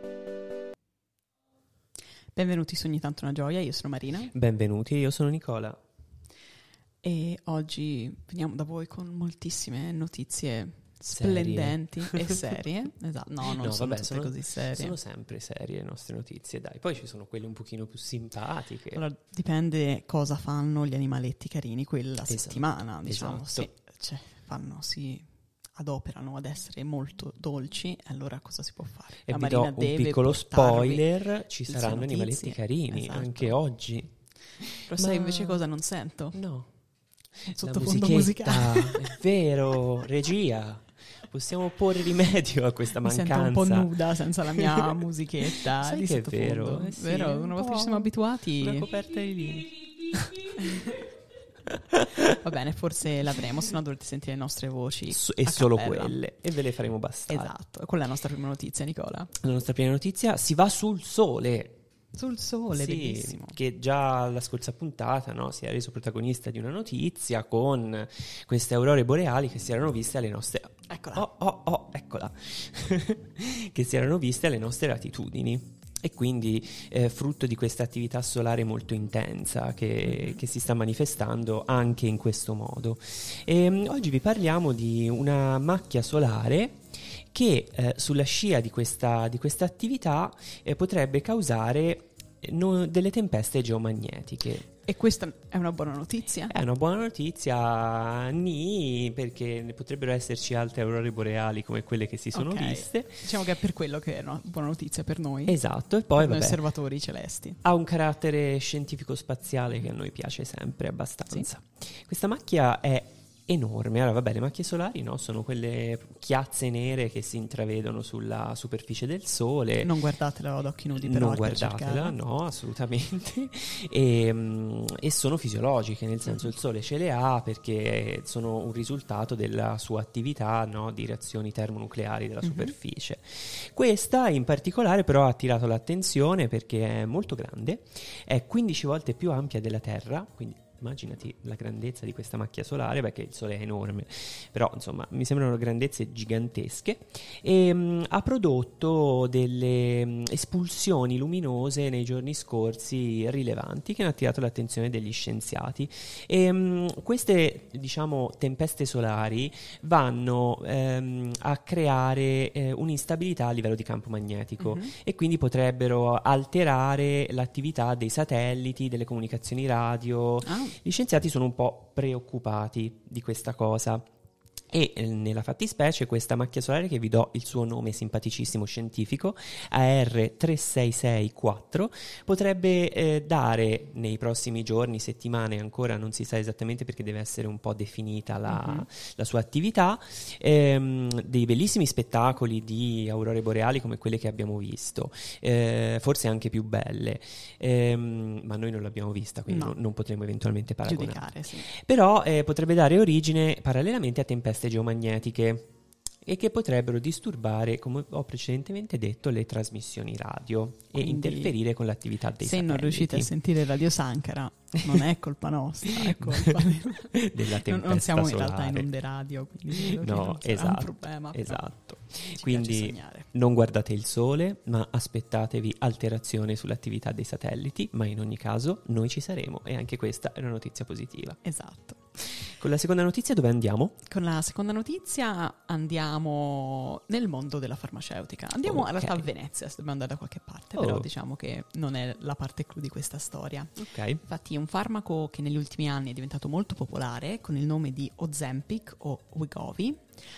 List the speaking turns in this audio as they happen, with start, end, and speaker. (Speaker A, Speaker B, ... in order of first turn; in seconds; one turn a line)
Speaker A: 2.3-4.3
Speaker B: 4.3-5.8
Speaker A: 7.0-15.0
Speaker B: 11.1-12.3
Speaker B: 13.5-19.0
Speaker A: 18.9-33.6
Speaker B: 22.3-23.7
Speaker B: 29.2-35.6
Speaker A: 34.9-36.4
Speaker B: 36.3-36.7
Speaker B: 37.4-45.0
Speaker A: 37.5-39.2
Speaker A: 43.0-48.9
Speaker B: 45.6-50.7
Speaker A: 50.5-51.0
Speaker B: 51.9-52.3
Speaker A: 52.3-56.2
Speaker B: 55.1-57.5
Speaker A: 57.3-59.3
Speaker B: 59.4-61.8
Speaker A: 62.1-63.6
Speaker B: 62.7-94.7
Speaker A: 70.9-71.2
Speaker A: 80.1-80.4
Speaker A: 94.8-96.5
Speaker B: 96.5-103.2
Speaker A: 102.3-105.6
Speaker B: 105.5-106.6
Speaker A: 106.2-107.6
Speaker B: 107.6-119.9
Speaker A: 119.8-122.2
Speaker B: 120.9-174.1
Speaker A: 132.4-132.7
Speaker A: 164.6-164.9
Speaker A: 170.4-170.8
Speaker B: 174.7-205.7
Speaker A: 188.5-188.8
Speaker A: 199.5-199.8
Speaker A: 200.8-201.7
Speaker B: 206.2-213.3
Speaker A: 210.9-211.6
Speaker A: 212.4-223.3
Speaker B: 215.9-218.9
Speaker B: 219.7-231.4
Speaker A: 231.4-232.0
Speaker B: 232.2-234.0
Speaker A: 234.0-250.0
Speaker B: 238.6-239.2
Speaker B: 240.7-241.1
Speaker B: 243.8-244.2